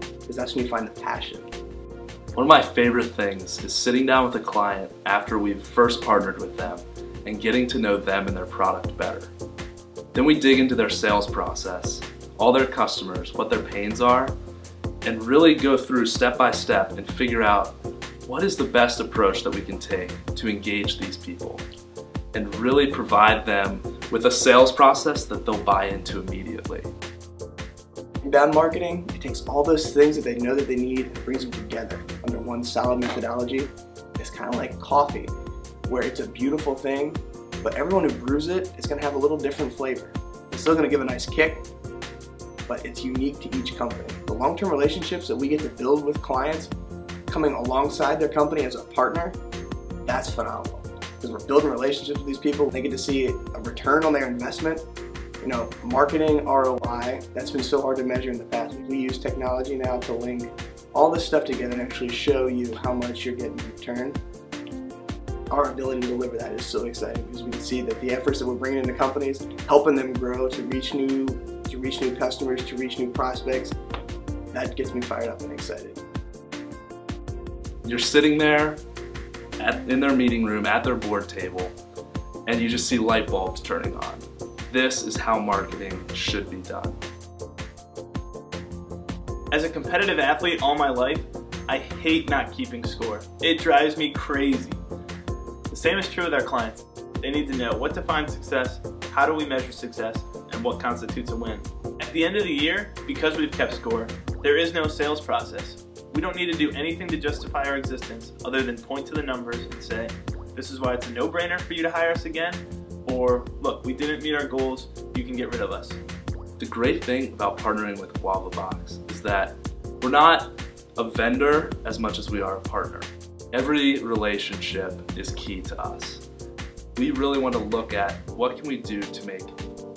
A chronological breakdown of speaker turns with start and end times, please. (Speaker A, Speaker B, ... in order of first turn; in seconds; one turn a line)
Speaker A: 0.3-1.5
Speaker B: 2.4-9.3
Speaker B: 10.1-14.3
Speaker B: 15.0-21.6
Speaker B: 22.3-26.9
Speaker A: 28.2-35.3
Speaker A: 35.9-41.6
Speaker A: 42.7-46.7
Speaker A: 47.3-49.4
Speaker A: 50.0-54.8
Speaker A: 55.4-64.2
Speaker A: 65.5-73.8
Speaker A: 74.5-76.0
Speaker B: 77.8-78.8
Speaker B: 79.6-81.8
Speaker B: 82.5-87.0
Speaker C: 89.5-94.8
Speaker C: 95.7-116.0
Speaker B: 116.6-126.2
Speaker B: 127.0-129.6